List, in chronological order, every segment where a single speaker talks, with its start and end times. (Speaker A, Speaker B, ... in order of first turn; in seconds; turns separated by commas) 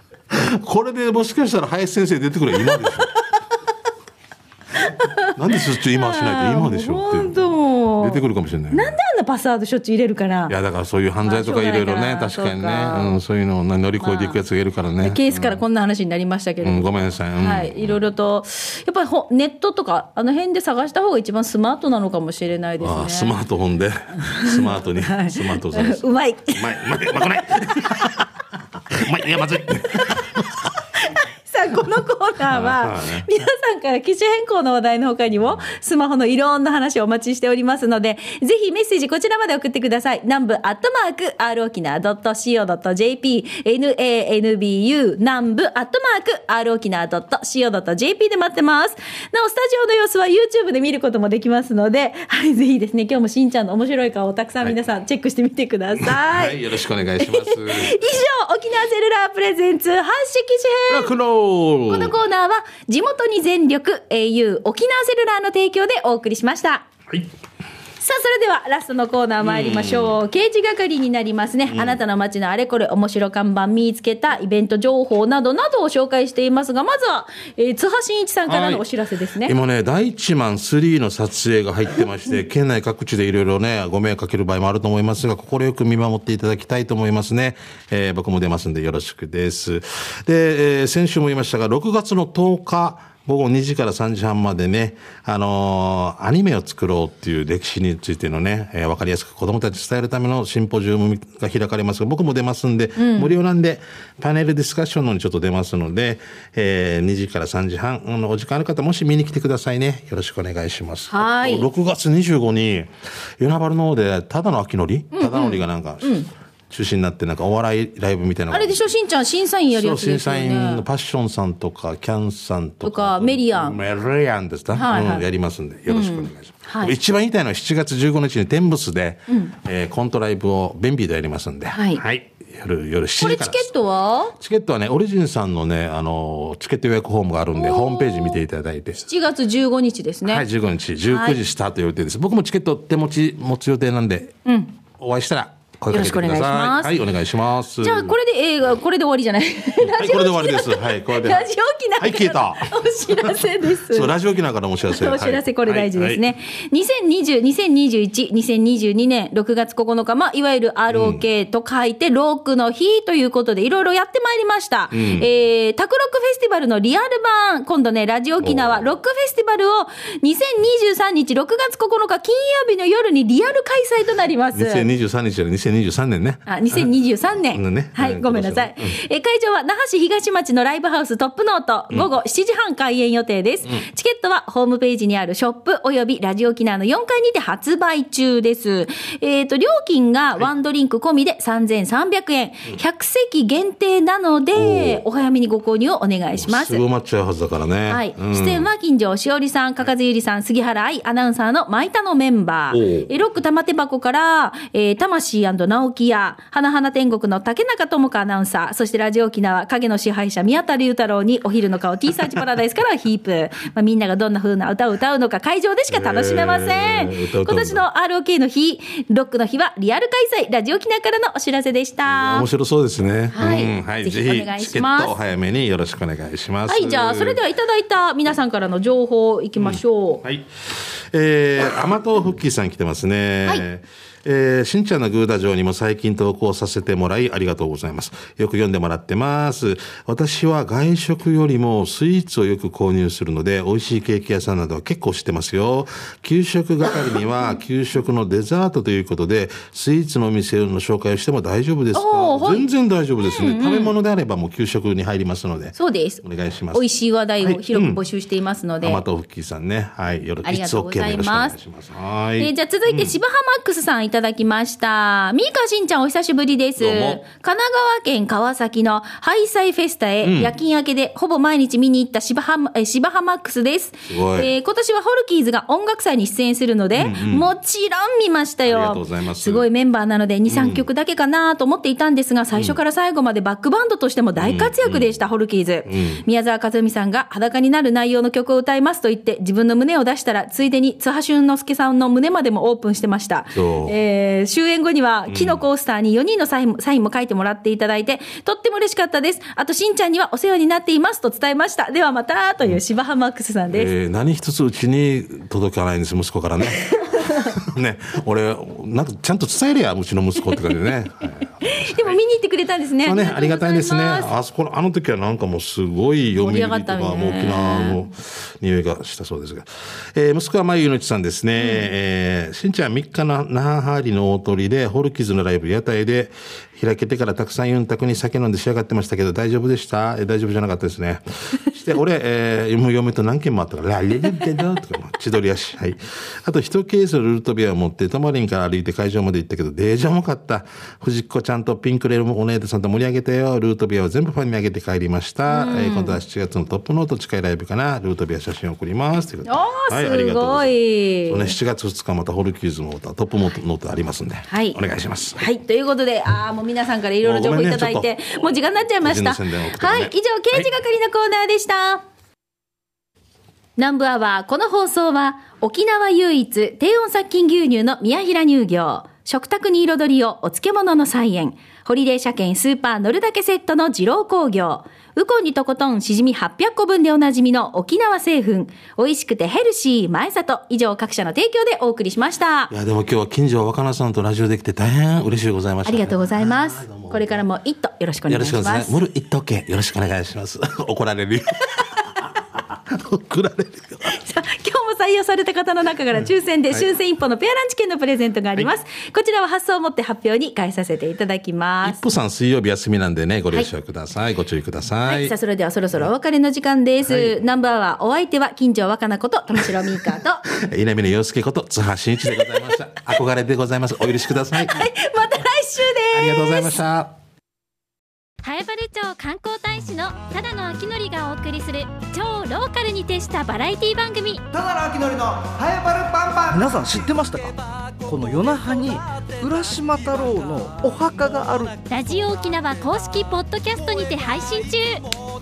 Speaker A: 0.3-3.1, Speaker B: 4.8-10.6, Speaker A: 5.3-8.9, Speaker A: 10.5-15.6, Speaker B: 11.2-13.2, Speaker B: 14.0-14.4, Speaker B: 15.0-23.4, Speaker A: 16.6-18.0, Speaker A: 22.8-26.0, Speaker B: 24.3-28.1, Speaker A: 26.6-28.3, Speaker A: 28.9-30.7, Speaker B: 31.0-56.7, Speaker A: 32.5-33.3, Speaker A: 56.0-58.0, Speaker B: 57.2-61.1, Speaker A: 60.9-62.2, Speaker B: 61.9-66.9, Speaker B: 68.0-79.5, Speaker A: 69.4-70.2, Speaker A: 71.7-72.0, Speaker A: 78.5-78.8, Speaker A: 79.4-118.8, Speaker B: 103.0-103.3, Speaker B: 111.1-111.7, Speaker B: 115.1-116.3, Speaker B: 118.5-120.8, Speaker A: 119.7-133.7, Speaker B: 122.8-123.8, Speaker B: 124.7-125.2, Speaker B: 125.9-126.9, Speaker B: 129.3-129.5, Speaker B: 131.7-132.0, Speaker B: 133.2-134.4, Speaker A: 134.4-139.1, Speaker B: 137.5-138.4, Speaker B: 139.0-140.4, Speaker A: 140.3-144.3, Speaker B: 141.1-141.4, Speaker B: 144.5-144.7, Speaker A: 145.0-148.2, Speaker B: 145.9-146.9, Speaker B: 147.8-154.1, Speaker A: 149.8-151.5, Speaker A: 152.0-156.2, Speaker B: 154.9-174.9, Speaker A: 160.9-161.2, Speaker A: 164.9-165.3, Speaker A: 168.4-168.8, Speaker A: 174.5-176.9, Speaker B: 176.5-196.8, Speaker A: 177.5-178.9, Speaker A: 194.5-195.0, Speaker A: 196.4-198.7, Speaker B: 197.9-222.5, Speaker A: 202.7-203.1, Speaker A: 215.9-217.8, Speaker A: 222.1-227.4, Speaker B: 223.3-225.1, Speaker B: 226.7-230.2, Speaker A: 229.6-256.8, Speaker B: 251.9-252.7, Speaker B: 253.2-254.0, Speaker B: 255.8-256.2, Speaker B: 256.7-259.0, Speaker A: 257.4-258.0, Speaker A: 258.8-263.1, Speaker B: 260.4-261.6, Speaker B: 262.4-303.9, Speaker A: 266.8-267.2, Speaker A: 270.2-270.5, Speaker A: 274.1-274.5, Speaker A: 277.0-277.5, Speaker A: 278.7-279.7, Speaker A: 280.5-280.9, Speaker A: 284.4-285.2, Speaker A: 285.9-286.2, Speaker A: 293.5-293.9, Speaker A: 295.3-295.6, Speaker A: 303.7-312.2, Speaker B: 311.6-314.3, Speaker A: 313.0-355.4, Speaker B: 316.4-318.1, Speaker B: 321.6-321.9, Speaker B: 345.5-346.2, Speaker B: 349.5-351.6, Speaker B: 354.5-354.8, Speaker B: 355.4-362.0, Speaker A: 357.2-358.4, Speaker A: 359.0-360.7, Speaker B: 363.8-382.7, Speaker A: 382.7-387.4, Speaker B: 385.9-388.9, Speaker A: 388.3-394.1, Speaker B: 394.1-402.0, Speaker A: 401.8-405.4, Speaker B: 405.1-410.4, Speaker A: 407.1-407.4, Speaker A: 410.5-414.9, Speaker B: 414.6-416.8, Speaker A: 416.1-417.1, Speaker C: 418.4-424.4, Speaker D: 424.5-426.6, Speaker E: 426.5-431.8, Speaker C: 431.9-435.1